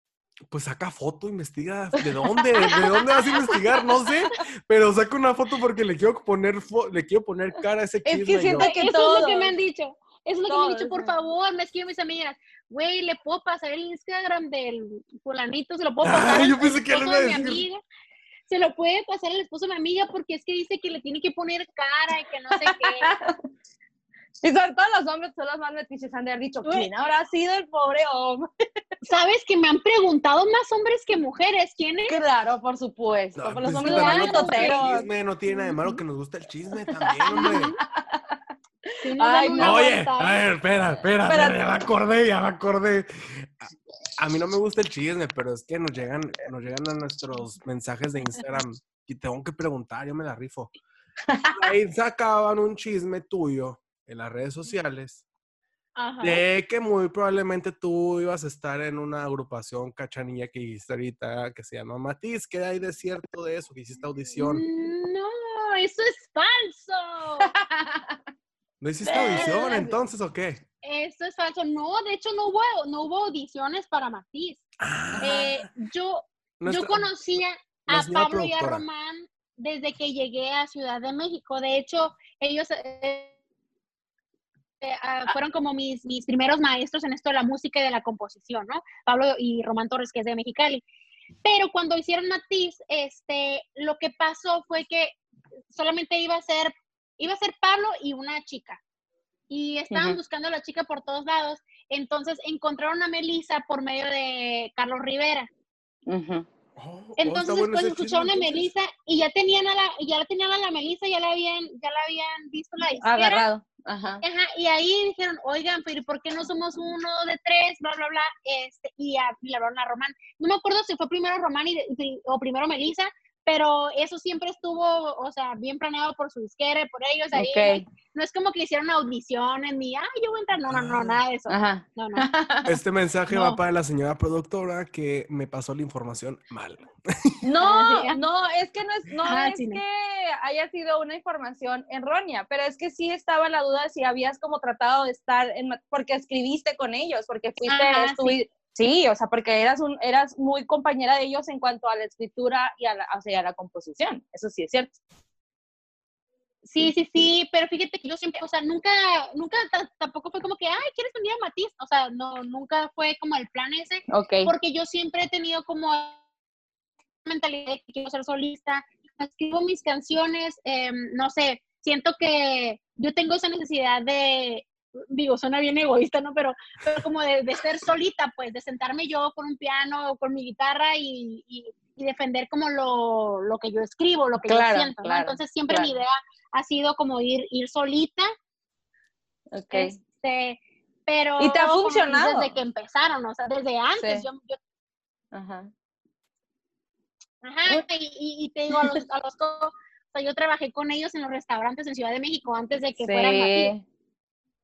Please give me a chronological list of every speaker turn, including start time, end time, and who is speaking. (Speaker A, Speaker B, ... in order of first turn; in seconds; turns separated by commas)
Speaker A: 0.5-8.7, Speaker B: 2.0-3.5, Speaker B: 8.0-9.5, Speaker C: 8.6-17.8, Speaker B: 10.5-11.1, Speaker A: 16.0-17.6, Speaker C: 18.5-23.1, Speaker B: 22.5-23.4, Speaker B: 24.4-28.5, Speaker C: 26.6-26.9, Speaker C: 29.0-32.2, Speaker B: 32.1-35.1, Speaker A: 33.4-37.8, Speaker C: 33.8-36.0, Speaker B: 36.9-39.9, Speaker C: 37.3-37.8, Speaker C: 39.0-40.4, Speaker A: 39.6-50.7, Speaker B: 41.2-41.6, Speaker B: 51.3-51.7, Speaker A: 51.5-55.2, Speaker C: 56.0-56.4, Speaker A: 56.2-64.6, Speaker C: 64.4-67.5, Speaker B: 67.4-68.2, Speaker A: 68.8-70.6, Speaker B: 69.0-70.0, Speaker C: 69.1-69.8, Speaker C: 70.8-74.6, Speaker A: 74.8-75.7, Speaker B: 75.2-75.4, Speaker C: 75.2-83.3, Speaker A: 76.6-77.1, Speaker A: 77.9-78.8, Speaker C: 84.8-90.8, Speaker C: 91.4-95.2, Speaker C: 95.7-98.8, Speaker C: 99.5-105.5, Speaker B: 99.9-100.2, Speaker B: 106.1-106.5, Speaker A: 106.8-108.7, Speaker C: 107.2-113.5, Speaker B: 113.0-114.2, Speaker C: 114.2-132.3, Speaker B: 127.3-127.8, Speaker A: 130.7-131.2, Speaker B: 131.5-132.8, Speaker A: 132.6-137.4, Speaker C: 133.3-133.6, Speaker B: 137.4-155.0, Speaker C: 137.6-138.2, Speaker C: 139.2-139.8, Speaker C: 147.7-148.4, Speaker C: 156.6-166.2, Speaker B: 164.1-164.5, Speaker C: 167.2-188.3, Speaker B: 184.4-185.9, Speaker B: 189.5-189.9, Speaker C: 189.7-194.6, Speaker B: 191.4-192.5, Speaker B: 194.0-194.2, Speaker B: 195.3-195.7, Speaker C: 197.4-203.7, Speaker B: 203.0-203.8